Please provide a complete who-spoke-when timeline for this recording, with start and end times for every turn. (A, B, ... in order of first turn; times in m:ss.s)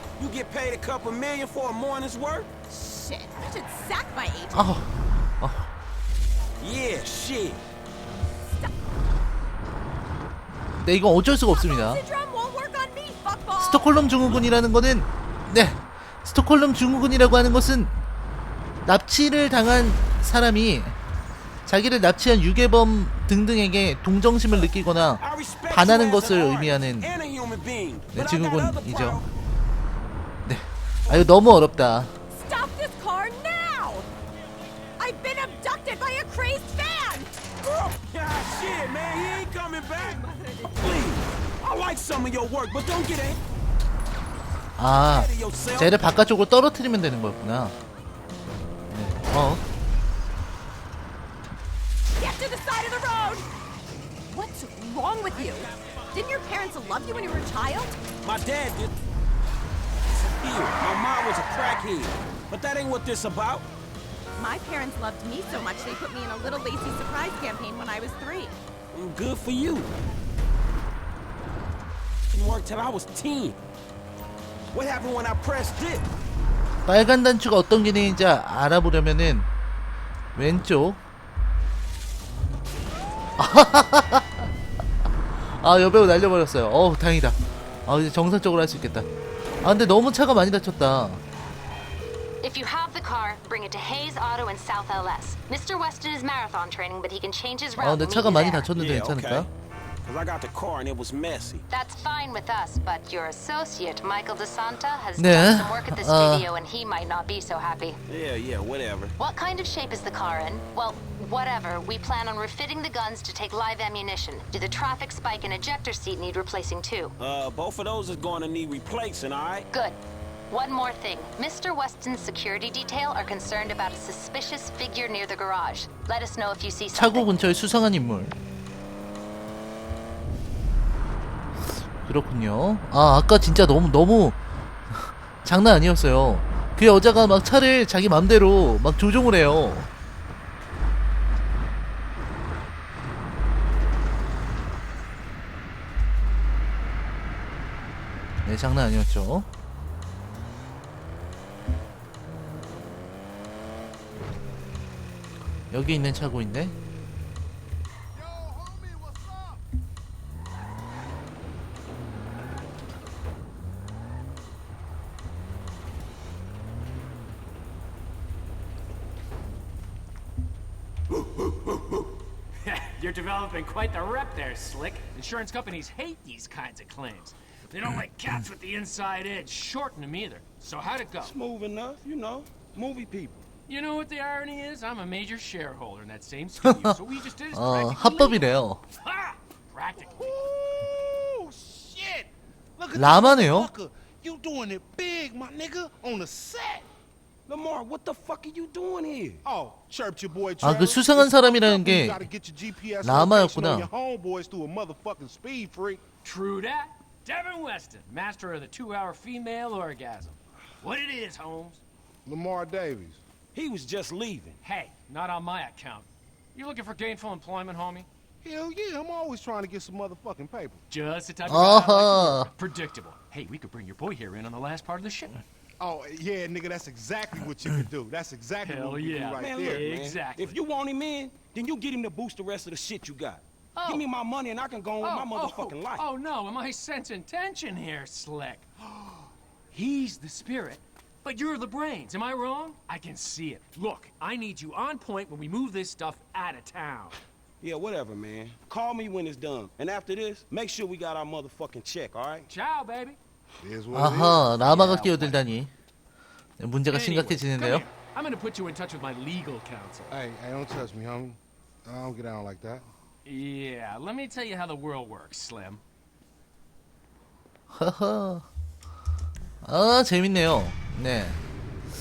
0:00.2-0:02.5 A
0:02.7-0:04.8 B
0:04.5-0:05.7 C
0:06.6-0:07.6 A
0:10.8-0:12.0 C
0:11.5-0:14.4 B
0:13.6-0:18.0 C
0:18.9-0:21.0 C
0:21.7-0:27.1 C
0:25.2-0:29.2 A
0:28.1-0:29.2 C
0:30.4-0:32.2 C
0:32.4-0:34.1 B
0:35.0-0:37.5 B
0:37.6-0:43.4 A
0:40.0-0:40.9 B
0:44.8-0:47.7 C
0:45.0-0:45.9 A
0:48.9-0:49.6 C
0:52.2-0:53.5 B
0:54.2-0:58.0 B
0:58.2-0:58.9 A
1:00.1-1:03.7 A
1:04.4-1:08.6 B
1:08.9-1:09.9 A
1:12.3-1:13.6 A
1:14.7-1:16.1 A
1:16.9-1:19.5 C
1:20.4-1:21.0 C
1:23.4-1:24.5 C
1:25.5-1:29.1 C
1:29.6-1:31.2 C
1:32.4-1:38.7 D
1:37.8-1:39.5 C
1:38.8-1:39.5 A
1:40.0-1:41.6 A
1:41.7-1:48.0 D
1:45.2-1:46.5 C
1:48.1-1:49.2 A
1:49.2-1:57.1 D
1:57.2-1:59.7 A
2:00.5-2:07.3 D
2:06.9-2:08.4 C
2:12.0-2:19.9 C
2:28.4-2:29.5 C
2:35.7-2:36.7 C
2:52.6-3:01.4 E
3:01.2-3:03.4 A
3:03.7-3:08.5 E
3:07.5-3:08.8 C
3:09.0-3:10.4 E
3:10.0-3:16.9 F
3:13.0-3:13.7 C
3:17.5-3:19.4 A
3:19.4-3:26.0 F
3:20.6-3:22.2 C
3:23.0-3:23.9 C
3:26.2-3:31.8 E
3:32.2-3:33.2 F
3:33.5-3:34.6 A
3:34.6-3:38.1 E
3:38.4-3:40.8 F
3:40.9-3:45.4 E
3:41.5-3:42.5 C
3:45.8-3:49.9 F
3:48.6-3:50.6 E
3:49.4-3:56.0 A
3:53.8-3:54.0 E
3:55.0-3:58.6 E
3:59.7-4:07.2 E
4:07.6-4:12.5 A
4:12.5-4:13.2 E
4:13.6-4:14.6 F
4:13.9-4:15.7 C
4:14.9-4:15.2 E
4:16.6-4:17.9 C
4:16.9-4:20.2 E
4:20.1-4:22.9 F
4:23.2-4:25.8 E
4:27.7-4:28.5 C
4:29.6-4:31.4 C